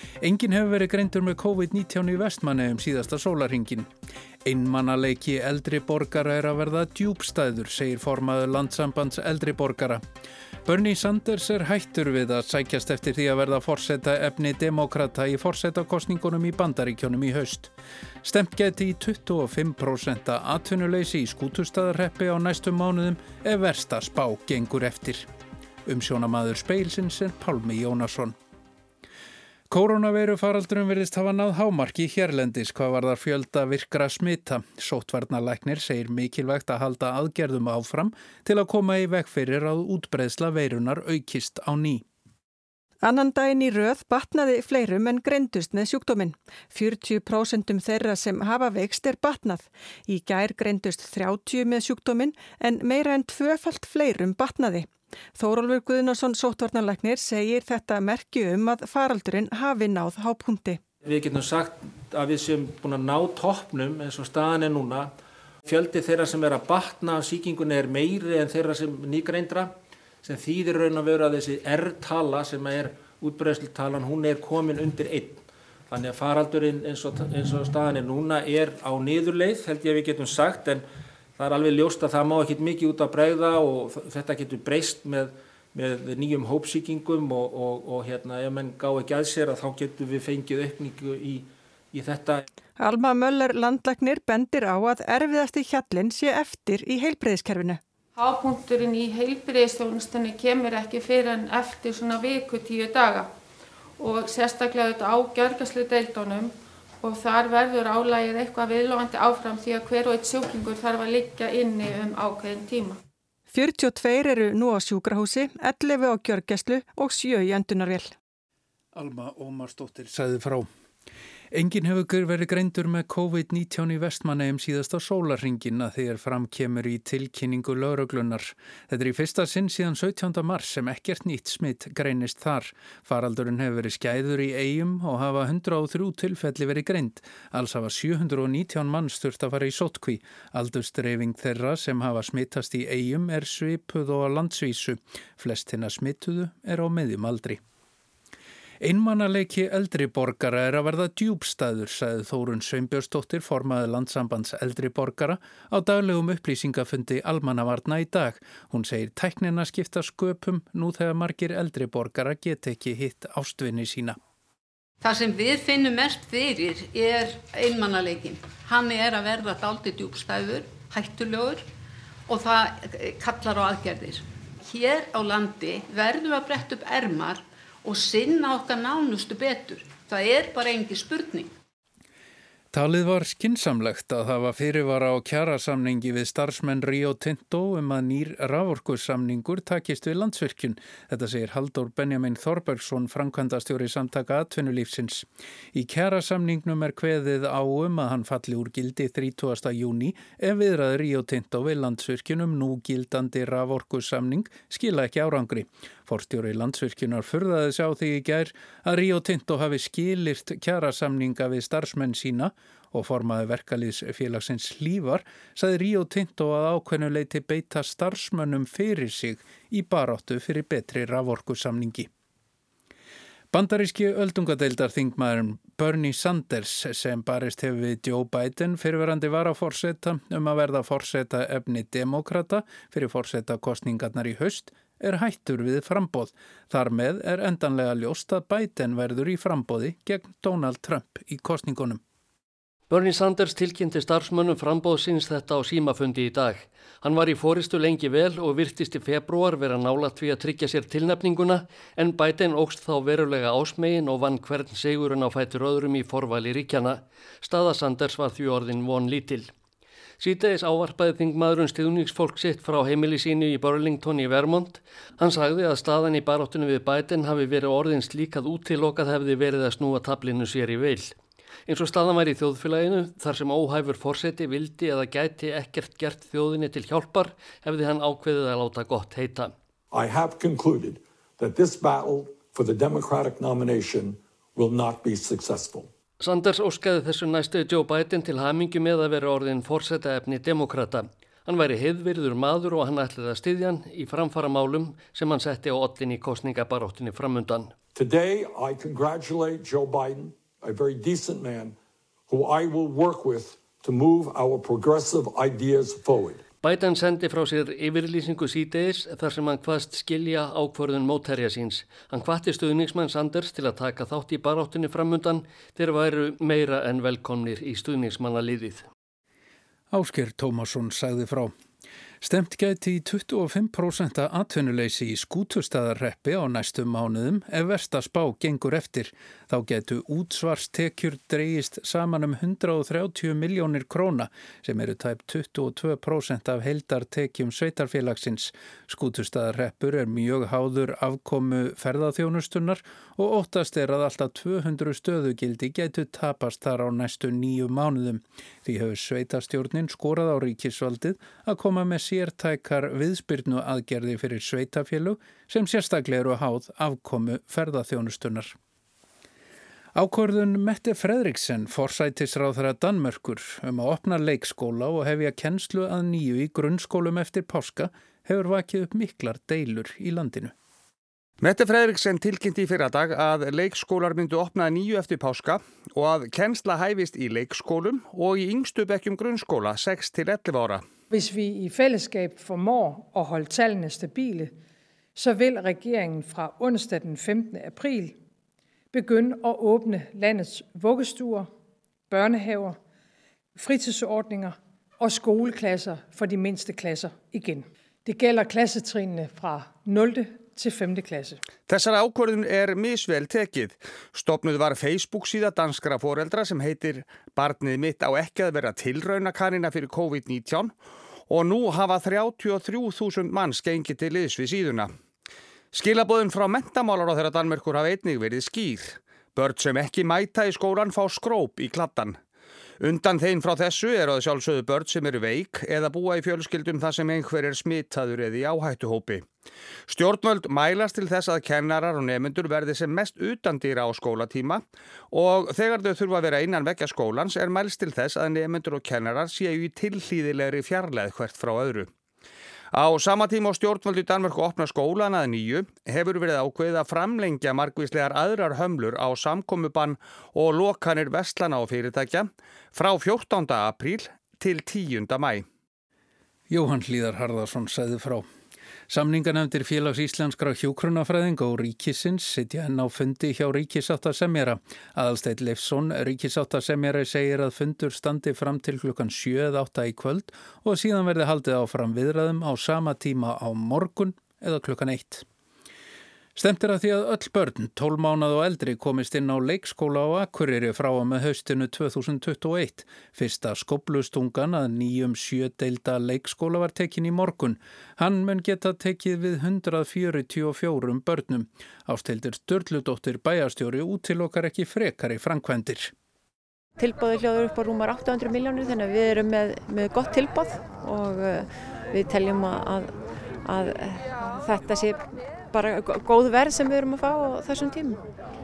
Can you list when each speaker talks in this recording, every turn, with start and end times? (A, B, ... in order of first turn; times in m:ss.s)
0:00.2-0:03.9 A
0:04.4-0:10.0 A
0:10.6-0:25.3 A
0:25.8-0:28.4 A
0:29.7-0:42.0 A
0:43.0-1:00.8 B
1:01.0-1:05.1 C
1:05.7-1:20.8 C
1:21.4-1:32.4 C
1:32.8-1:37.8 B
1:38.2-1:43.3 D
1:44.0-1:53.0 D
1:53.5-1:58.1 B
1:58.9-2:00.7 A
2:01.5-2:27.6 A
2:28.8-2:44.2 A
2:45.0-2:51.7 E
2:52.3-3:01.5 E
3:02.7-3:42.1 A
3:43.5-4:02.0 A
4:02.9-4:19.5 F
4:20.2-4:31.1 F
4:31.7-4:39.5 F
4:39.9-4:45.9 G
4:46.2-4:57.7 F
4:58.0-5:01.8 G
5:02.3-5:06.4 G
5:06.6-5:18.9 F
5:19.9-5:21.5 A
5:22.2-5:58.6 A
5:59.9-6:10.5 A
6:11.4-6:20.9 H
6:21.1-6:24.5 I
6:25.2-6:28.2 I
6:28.9-6:31.5 I
6:32.1-6:32.8 I
6:33.6-6:41.4 I
6:41.7-6:50.8 H
6:51.3-6:54.9 H
6:55.7-7:02.2 H
7:02.8-7:09.3 H
7:09.9-7:21.9 H
7:22.7-7:35.5 H
7:36.5-7:38.3 A
7:38.9-7:55.3 A
7:56.4-8:15.9 A
8:16.8-8:28.0 J